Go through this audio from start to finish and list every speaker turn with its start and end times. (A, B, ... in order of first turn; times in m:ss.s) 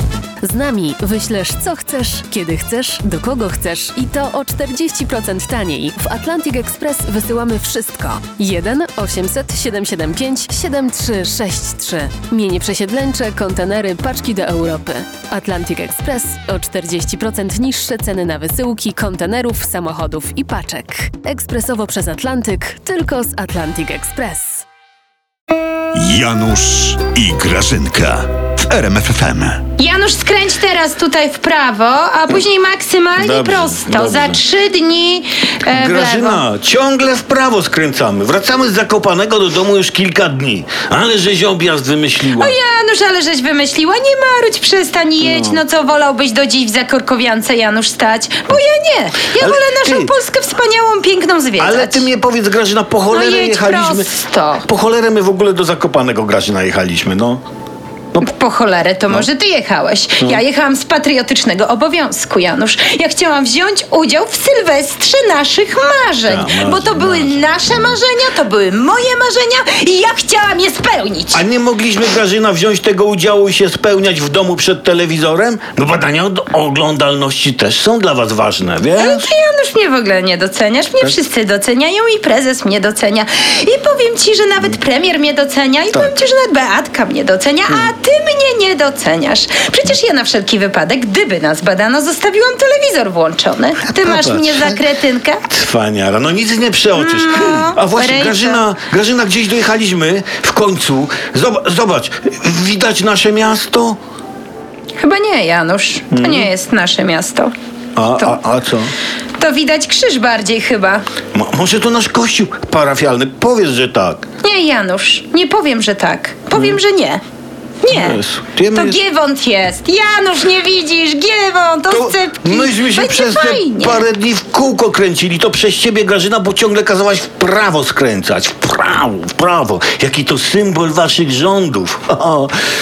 0:00.4-0:24.6 A
0:25.9-0:29.6 B
0:29.8-0:36.4 C
0:33.2-0:34.4 D
0:35.7-0:42.5 D
0:42.3-0:52.1 C
0:45.2-0:45.6 D
0:49.4-0:50.1 D
0:51.6-0:54.1 D
0:53.1-0:54.6 C
0:54.6-0:57.4 D
0:58.2-1:11.4 C
1:06.2-1:07.4 D
1:11.3-1:19.3 D
1:19.0-1:35.4 C
1:33.8-1:34.8 D
1:35.5-1:44.0 D
1:36.9-1:38.6 C
1:45.0-1:47.5 C
1:46.1-1:46.5 D
1:48.0-1:48.9 D
1:49.4-1:51.0 C
1:51.3-1:54.2 D
1:54.4-1:57.2 C
1:56.5-1:56.8 D
1:57.8-1:58.2 C
1:57.9-1:59.0 D
1:58.7-2:04.0 C
2:01.9-2:12.6 D